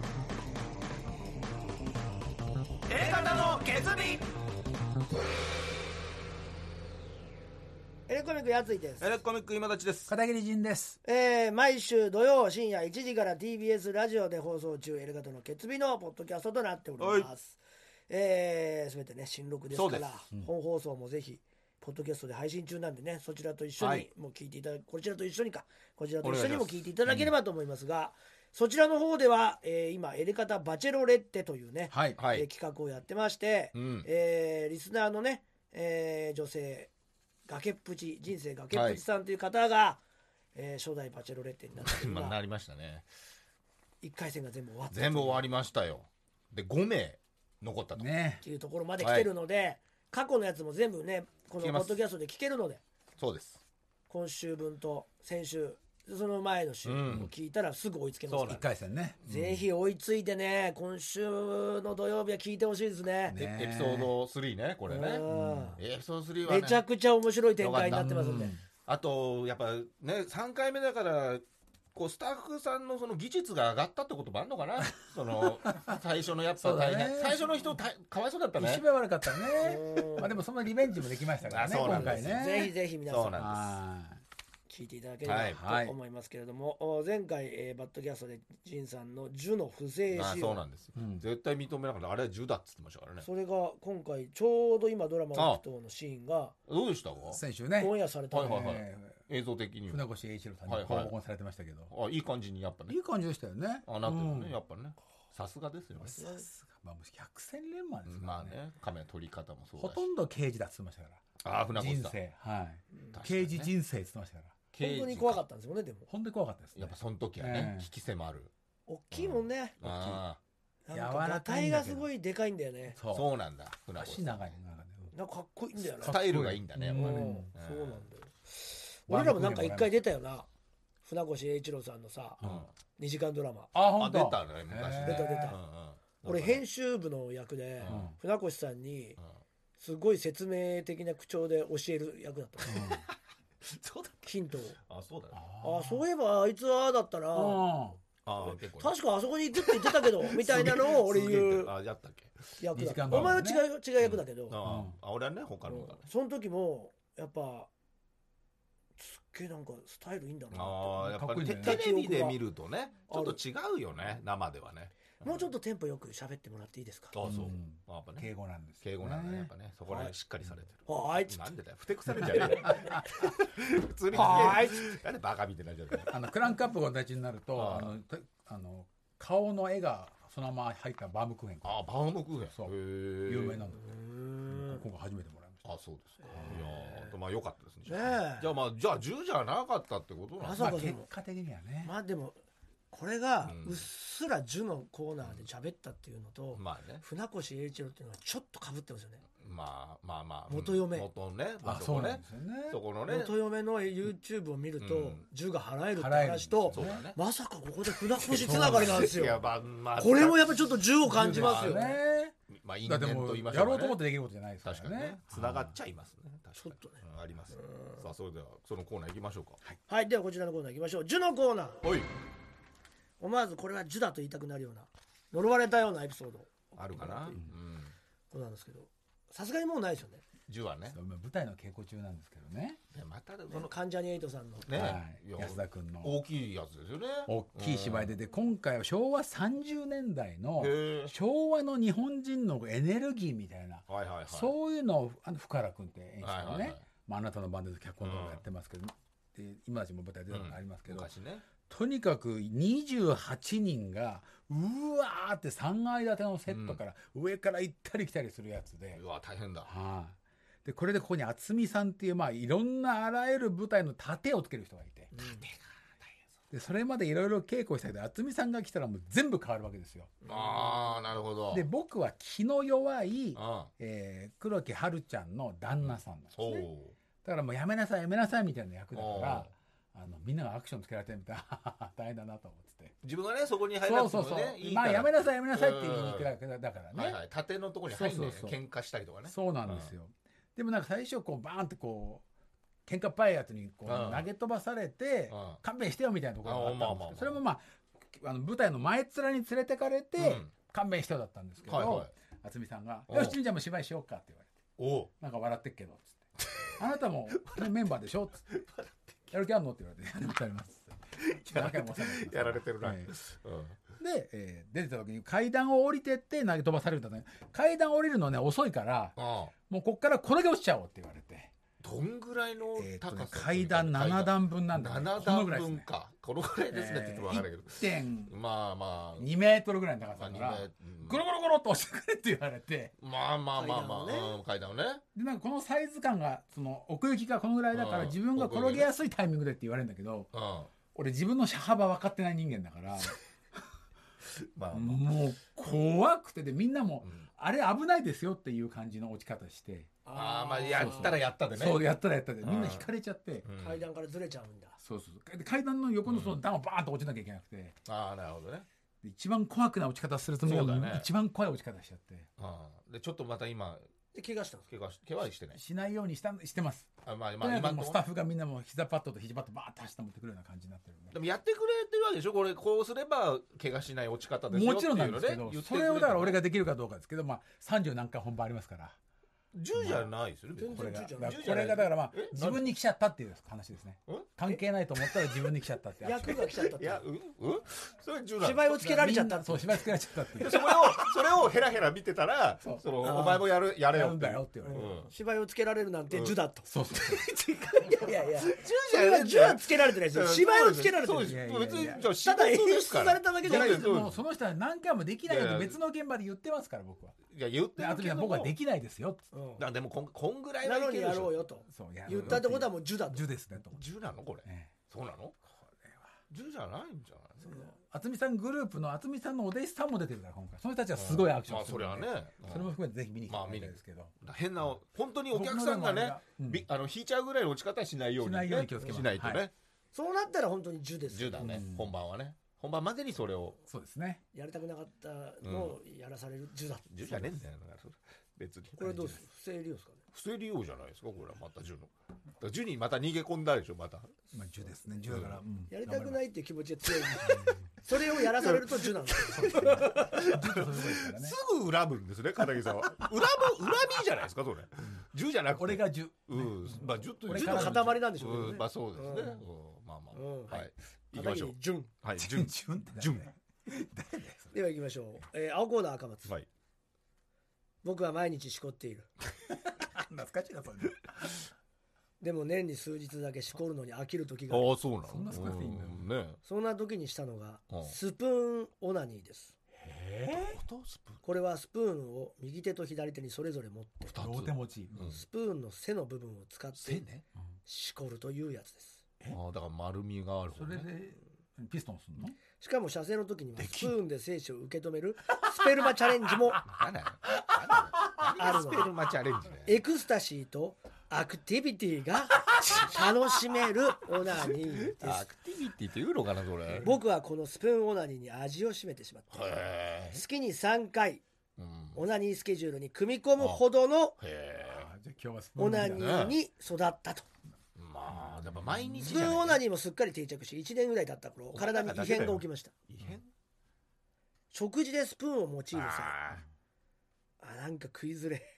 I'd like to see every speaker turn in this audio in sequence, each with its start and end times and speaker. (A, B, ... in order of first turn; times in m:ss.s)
0:02.9-0:04.3 A
0:08.1-0:09.1 B
0:09.0-0:10.1 A
0:10.1-0:11.0 C
0:11.0-0:36.9 B
0:17.0-0:17.3 A
0:19.7-0:20.1 A
0:23.8-0:24.1 A
0:26.2-0:27.0 A
0:27.0-0:27.3 C
0:31.9-0:32.2 C
0:32.2-0:32.5 A
0:33.7-0:34.1 A
0:37.4-0:40.0 B
0:38.7-0:39.0 A
0:40.5-0:42.4 B
0:41.8-0:43.0 A
0:44.0-0:45.4 B
0:44.9-0:48.1 A
0:48.0-0:48.4 C
0:48.4-0:52.8 B
0:49.0-0:49.3 A
0:51.6-0:52.0 A
0:53.2-0:53.6 A
0:54.1-0:58.7 B
0:56.8-0:57.3 A
0:58.3-0:58.6 A
0:58.4-0:59.7 C
0:59.2-1:03.4 B
1:03.3-1:04.1 C
1:03.4-1:05.2 A
1:04.9-1:05.8 B
1:05.3-1:05.8 C
1:05.8-1:06.8 A
1:06.4-1:08.6 B
1:07.6-1:18.9 A
1:07.8-1:08.6 C
1:16.6-1:17.7 C
1:18.6-1:22.7 C
1:19.6-1:20.4 B
1:21.4-1:22.5 A
1:21.8-1:23.4 B
1:23.1-1:23.8 A
1:23.3-1:24.2 C
1:24.7-1:30.6 B
1:25.2-1:25.6 A
1:25.4-1:26.0 C
1:30.1-1:33.3 A
1:31.0-1:31.2 C
1:33.2-1:36.6 B
1:35.3-1:35.6 A
1:36.7-1:37.4 A
1:37.2-1:39.2 C
1:37.8-1:38.7 B
1:38.3-1:40.1 A
1:39.9-1:41.9 C
1:40.7-1:41.1 A
1:41.9-1:43.0 A
1:42.9-1:44.6 C
1:43.8-1:46.2 A
1:46.0-1:48.6 C
1:46.2-1:46.4 B
1:48.0-1:50.1 A
1:49.8-1:51.2 C
1:51.4-1:52.2 A
1:51.7-1:54.5 C
1:53.1-1:53.7 A
1:54.7-1:55.4 A
1:54.8-1:56.1 B
1:56.1-1:57.9 C
1:56.7-1:58.5 A
1:58.9-1:59.8 B
1:59.1-2:00.4 A
1:59.8-2:00.2 C
2:00.9-2:03.0 B
2:00.9-2:02.1 C
2:02.9-2:03.3 C
2:03.1-2:04.6 A
2:04.0-2:05.1 C
2:05.1-2:06.2 B
2:06.0-2:07.5 C
2:06.0-2:08.1 A
2:06.9-2:10.5 B
2:09.1-2:10.0 C
2:11.0-2:12.4 B
2:12.4-2:12.7 C
2:12.4-2:12.7 A
2:13.0-2:13.7 B
2:13.7-2:15.6 C
2:14.0-2:16.6 A
2:15.0-2:15.6 B
2:16.2-2:19.2 B
2:17.8-2:18.1 A
2:17.9-2:18.2 C
2:19.8-2:23.0 B
2:22.7-2:23.0 C
2:23.6-2:24.3 A
2:24.2-2:24.8 B
2:24.9-2:25.4 A
2:25.3-2:26.1 C
2:25.6-2:27.6 B
2:27.3-2:28.0 C
2:28.2-2:29.0 A
2:28.8-2:31.7 B
2:29.6-2:32.4 A
2:32.6-2:34.6 B
2:32.7-2:33.7 C
2:33.1-2:33.4 A
2:34.0-2:36.1 A
2:34.6-2:35.0 C
2:35.6-2:37.7 B
2:39.0-2:41.0 B
2:40.5-2:45.4 A
2:41.0-2:41.8 C
2:41.6-2:42.4 B
2:43.1-2:43.4 B
2:45.2-2:47.2 B
2:47.1-2:56.3 A
2:47.2-2:50.6 C
2:50.9-2:51.5 B
2:52.1-2:53.3 C
2:54.1-2:54.8 C
2:54.1-2:54.9 B
2:56.1-3:01.8 C
2:57.6-2:58.0 A
3:01.6-3:03.7 A
3:02.4-3:03.9 C
3:03.8-3:04.8 B
3:04.4-3:05.7 C
3:05.6-3:10.7 A
3:06.2-3:07.2 B
3:06.3-3:06.7 C
3:07.9-3:08.5 B
3:10.4-3:11.1 B
3:10.5-3:11.9 C
3:11.8-3:12.4 B
3:12.9-3:19.2 B
3:13.4-3:13.9 A
3:15.2-3:15.5 A
3:16.6-3:17.0 A
3:19.4-3:23.4 A
3:20.5-3:21.1 B
3:21.6-3:22.8 C
3:23.1-3:32.0 B
3:24.8-3:25.2 A
3:25.9-3:27.0 C
3:26.7-3:27.2 A
3:28.1-3:32.0 A
3:28.4-3:29.1 C
3:31.0-3:35.8 C
3:32.5-3:34.0 A
3:34.6-3:39.6 A
3:36.6-3:37.0 B
3:37.5-3:37.9 B
3:39.9-3:41.8 B
3:41.8-3:42.1 A
3:43.2-3:47.4 B
3:46.8-3:48.0 A
3:48.3-3:50.2 B
3:50.5-3:51.0 A
3:50.9-3:52.8 C
3:52.9-3:53.7 A
3:53.5-3:54.9 B
3:54.6-3:58.2 A
3:54.7-3:56.2 C
3:57.2-4:19.0 C
4:00.6-4:01.2 A
4:03.9-4:04.6 A
4:06.2-4:06.8 A
4:08.0-4:08.4 A
4:10.3-4:11.4 A
4:16.5-4:16.8 A
4:18.9-4:19.7 A
4:19.6-4:25.1 C
4:25.1-4:25.4 B
4:25.2-4:25.8 A
4:26.5-4:30.2 C
4:30.2-4:31.7 A
4:30.3-4:30.9 B
4:31.5-4:36.7 C
4:33.3-4:33.7 A
4:35.8-4:37.0 A
4:37.2-4:42.9 C
4:38.9-4:39.5 A
4:43.0-4:46.3 A
4:43.8-4:47.2 C
4:46.9-4:49.9 A
4:47.9-4:48.6 C
4:49.2-4:52.2 C
4:52.8-5:04.6 C
4:53.8-4:54.3 A
4:55.3-4:55.6 A
4:56.4-4:57.4 A
5:00.2-5:00.5 A
5:01.6-5:02.1 A
5:03.1-5:03.4 A
5:04.8-5:05.1 A
5:05.2-5:06.2 C
5:06.4-5:07.7 A
5:06.8-5:08.4 C
5:08.5-5:09.2 A
5:09.3-5:13.1 C
5:11.2-5:13.8 A
5:14.0-5:21.5 C
5:19.2-5:19.5 A
5:21.8-5:29.3 A
5:22.8-5:25.9 C
5:26.7-5:28.4 C
5:29.2-5:32.9 C
5:30.1-5:31.2 A
5:33.0-5:35.0 A
5:33.5-5:34.4 B
5:35.1-5:40.3 C
5:37.7-5:38.9 A
5:40.3-5:40.7 A
5:40.9-5:43.6 C
5:44.4-5:45.2 A
5:44.7-5:50.0 C
5:47.0-5:47.2 A
5:50.0-5:51.2 B
5:50.1-5:51.8 A
5:50.7-5:53.5 C
5:52.4-5:52.9 A
5:53.4-5:53.8 A
5:53.6-5:54.8 B
5:54.8-5:57.8 C
5:56.1-5:56.4 A
5:57.8-5:58.6 A
5:59.0-6:02.3 C
6:00.4-6:01.1 A
6:02.4-6:03.9 A
6:04.1-6:04.7 B
6:04.7-6:05.6 A
6:05.5-6:11.2 C
6:07.0-6:08.0 A
6:11.1-6:16.4 A
6:14.5-6:19.0 C
6:19.5-6:22.7 A
6:19.7-6:20.1 C
6:20.6-6:21.5 B
6:20.7-6:26.4 C
6:26.0-6:27.1 B
6:26.2-6:28.8 A
6:28.4-6:29.8 B
6:28.7-6:31.2 C
6:30.3-6:35.1 A
6:32.6-6:34.9 C
6:33.0-6:33.4 B
6:34.6-6:36.7 B
6:36.1-6:36.4 A
6:36.6-6:37.2 C
6:36.9-6:44.2 A
6:37.8-6:41.4 B
6:41.2-6:42.1 C
6:42.2-6:43.9 B
6:43.4-6:47.2 C
6:45.2-6:45.8 A
6:47.3-6:48.6 A
6:47.8-6:49.2 C
6:49.3-6:49.6 B
6:49.6-6:51.4 A
6:50.6-6:53.3 B
6:51.7-6:53.8 C
6:52.1-6:52.4 A
6:53.7-6:55.4 A
6:54.4-6:54.7 C
6:55.5-6:56.1 C
6:56.3-6:57.7 A
6:57.4-6:57.7 B
6:57.6-7:04.1 C
7:00.9-7:02.7 A
7:03.3-7:09.5 A
7:05.3-7:06.7 C
7:08.2-7:09.4 C
7:09.9-7:11.6 B
7:11.1-7:13.6 A
7:11.4-7:11.9 C
7:13.6-7:14.2 C
7:14.3-7:17.4 B
7:15.4-7:15.8 A
7:16.9-7:19.2 A
7:18.8-7:20.0 B
7:18.9-7:19.2 C
7:20.1-7:24.1 A
7:24.3-7:26.2 C
7:25.1-7:25.4 A
7:25.7-7:30.1 B
7:27.2-7:27.6 C
7:27.9-7:43.3 A
7:29.3-7:31.4 C
7:35.5-7:38.0 C
7:37.3-7:39.4 B
7:40.1-7:41.9 B
7:42.2-7:44.5 C
7:44.5-7:46.3 B
7:47.8-7:49.1 B
7:49.6-7:51.4 C
7:52.2-7:54.7 B
7:54.5-7:56.4 A
7:55.0-7:56.1 C
7:56.4-7:59.6 B
7:57.7-7:57.9 A
7:59.8-8:00.6 C
8:00.3-8:01.2 A
8:01.2-8:04.1 B
8:04.1-8:05.2 A
8:04.2-8:05.2 C
8:05.1-8:07.1 B
8:06.8-8:07.2 A
8:07.6-8:09.0 B
8:09.3-8:10.9 A
8:10.5-8:12.4 C
8:12.6-8:16.6 B
8:13.6-8:13.9 A
8:16.6-8:19.8 A
8:18.4-8:18.9 B
8:19.6-8:25.3 B
8:22.6-8:23.0 A
8:24.3-8:26.9 A
8:26.8-8:31.2 B
8:29.3-8:30.2 A
8:31.6-8:32.0 A
8:31.9-8:34.2 B
8:33.4-8:33.6 A
8:34.2-8:34.9 A
8:34.6-8:36.1 C
8:35.6-8:37.3 B
8:35.9-8:36.4 A
8:37.8-8:39.6 A
8:38.1-8:39.4 C
8:39.0-8:42.7 B
8:41.5-8:43.3 A
8:44.5-8:46.2 B
8:45.7-8:46.4 A
8:47.4-8:48.4 B